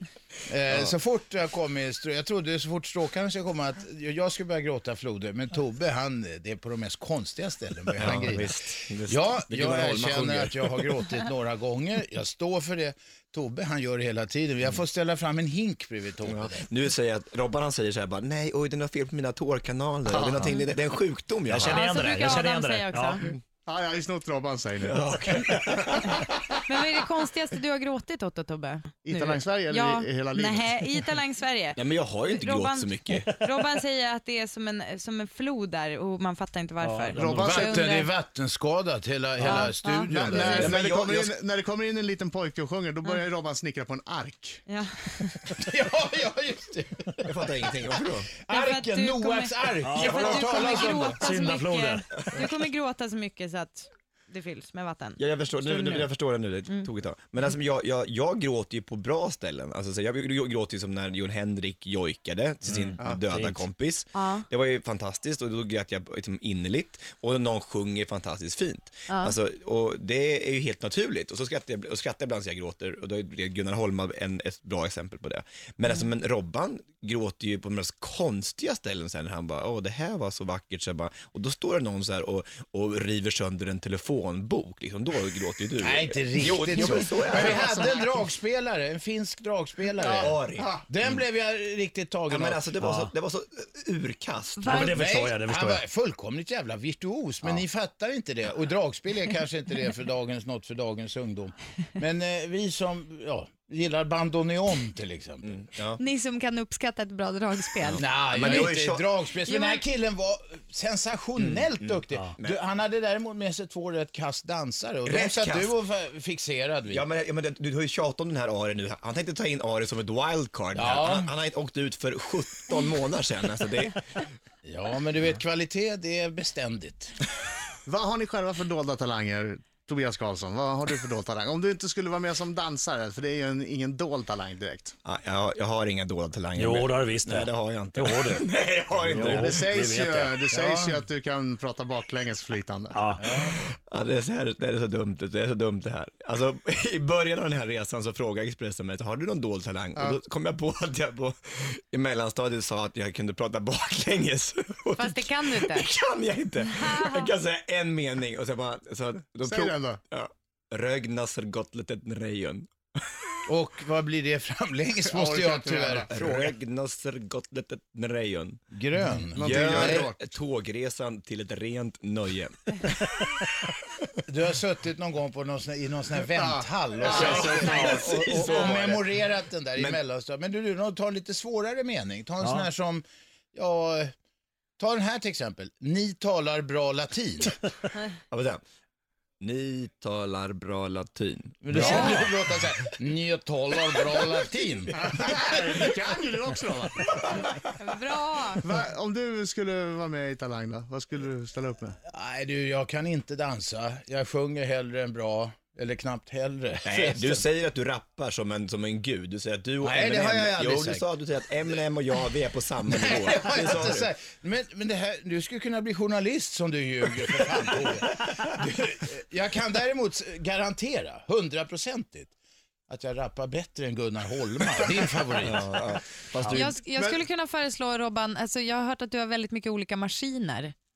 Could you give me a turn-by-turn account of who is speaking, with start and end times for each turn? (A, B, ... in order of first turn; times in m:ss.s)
0:00.5-0:16.7 A
0:08.0-0:10.5 B
0:09.6-0:10.5 C
0:16.2-0:21.8 B
0:20.0-0:20.6 C
0:21.4-0:23.3 D
0:21.6-0:23.3 E
0:23.6-0:26.5 C
0:24.8-0:26.2 B
0:26.7-0:38.1 E
0:29.0-0:30.8 C
0:31.8-0:33.3 B
0:36.8-0:37.7 D
0:37.2-0:37.8 C
0:37.2-0:40.9 A
0:39.4-0:40.1 E
0:39.4-0:40.2 D
0:40.2-0:44.6 C
0:40.4-0:41.3 B
0:44.7-0:45.3 E
0:45.4-0:51.3 A
0:47.3-0:48.3 B
0:48.5-0:56.1 E
0:49.8-0:52.4 D
0:55.2-1:27.8 B
1:02.6-1:03.6 D
1:04.1-1:04.4 E
1:09.1-1:09.3 E
1:25.8-1:32.7 A
1:27.3-1:28.2 C
1:30.0-1:31.2 B
1:30.1-1:30.8 C
1:32.3-1:34.8 B
1:32.8-1:33.1 D
1:34.6-1:35.0 E
1:34.7-1:45.6 A
1:34.7-1:35.8 D
1:45.4-1:46.0 B
1:46.0-1:48.8 E
1:47.8-1:49.1 B
1:48.0-1:57.0 A
1:49.4-1:49.8 E
1:51.4-1:52.6 B
1:55.0-1:55.8 B
1:56.9-2:04.0 B
2:00.7-2:01.4 A
2:04.6-2:07.2 A
2:07.8-2:14.9 C
2:15.0-2:19.6 B
2:16.5-2:18.4 D
2:19.0-2:20.3 D
2:19.1-2:19.3 A
2:19.2-2:23.0 C
2:20.5-2:21.0 A
2:22.9-2:23.3 D
2:23.2-2:23.6 A
2:23.6-2:42.7 B
2:35.0-2:35.8 E
2:36.8-2:37.3 E
2:39.4-2:40.0 C
2:43.5-2:46.6 A
2:45.1-2:46.1 C
2:46.1-2:48.6 B
2:48.7-2:50.1 A
2:49.3-2:50.2 C
2:49.4-2:53.5 B
2:54.2-3:04.1 A
2:56.4-2:58.4 C
2:57.0-2:58.8 E
2:57.1-2:59.1 B
2:59.8-3:00.0 B
3:02.4-3:02.7 D
3:04.8-3:07.6 A
3:08.3-3:08.6 B
3:09.4-3:12.1 B
3:11.6-3:15.5 A
3:11.8-3:12.3 D
3:14.9-3:17.4 C
3:17.8-3:18.6 E
3:18.6-3:22.0 C
3:22.1-3:27.4 A
3:26.8-3:34.1 B
3:29.8-3:31.1 A
3:32.8-3:42.3 A
3:42.9-3:46.0 A
3:45.4-3:46.6 B
3:46.4-3:46.7 D
3:46.4-3:50.7 E
3:46.9-3:47.2 C